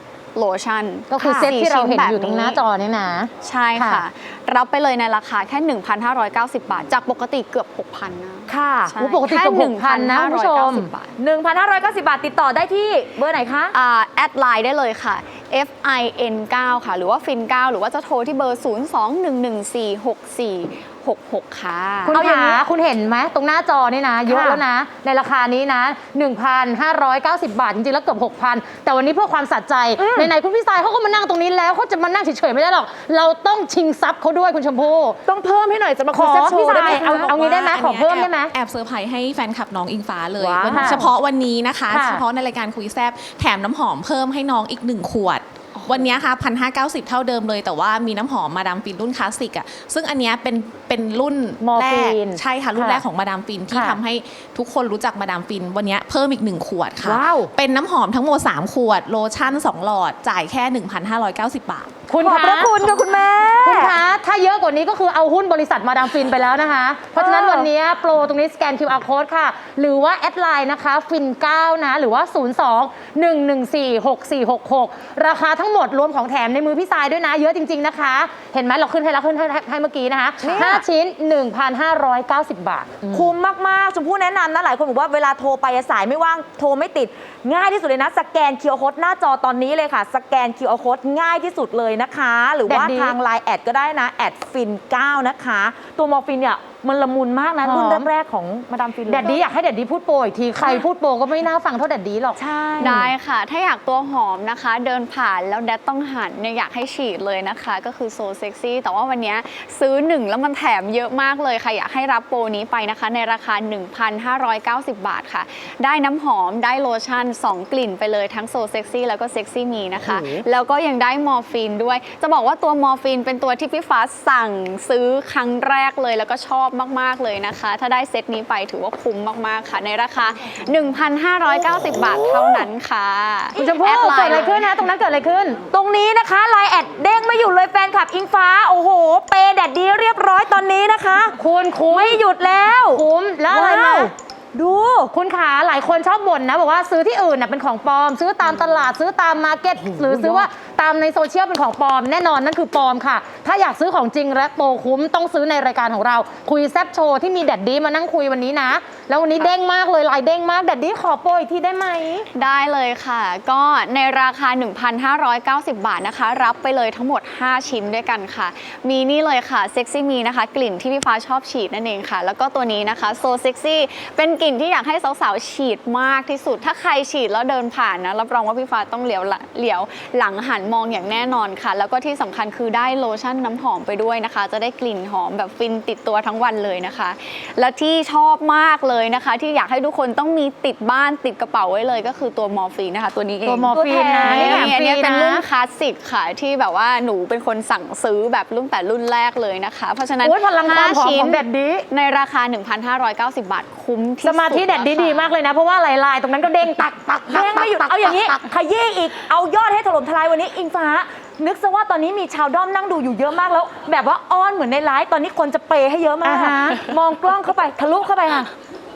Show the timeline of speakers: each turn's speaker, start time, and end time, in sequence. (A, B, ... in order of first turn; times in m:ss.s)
0:00.4-0:11.1 A
0:01.1-0:03.2 B
0:08.5-0:09.1 C
0:09.1-0:10.9 B
0:11.1-0:13.7 C
0:13.7-0:22.4 A
0:22.1-0:22.6 C
0:22.1-0:35.2 B
0:24.3-0:24.6 C
0:30.0-0:30.3 C
0:35.3-0:37.4 C
0:36.1-0:38.3 B
0:36.8-1:02.0 D
0:40.4-0:41.1 C
0:57.0-0:57.5 C
1:02.1-1:02.7 B
1:02.2-1:04.0 C
1:03.7-1:23.2 B
1:07.2-1:07.7 C
1:20.4-1:20.8 C
1:23.1-1:39.4 C
1:32.7-1:33.1 B
1:37.7-1:38.0 B
1:39.1-1:42.4 B
1:42.4-1:43.1 C
1:42.8-2:14.9 A
2:00.0-2:00.4 C
2:13.6-2:15.6 B
2:15.7-2:25.1 C
2:21.4-2:22.1 B
2:23.0-2:23.8 B
2:25.1-2:41.9 B
2:29.8-2:30.5 C
2:39.2-2:39.6 A
2:41.7-3:25.4 A
3:13.5-3:13.9 B
3:13.7-3:14.8 C
3:14.8-3:15.4 B
3:20.5-3:21.4 B
3:24.2-3:28.1 B
3:27.3-3:38.5 C
3:36.3-3:36.8 A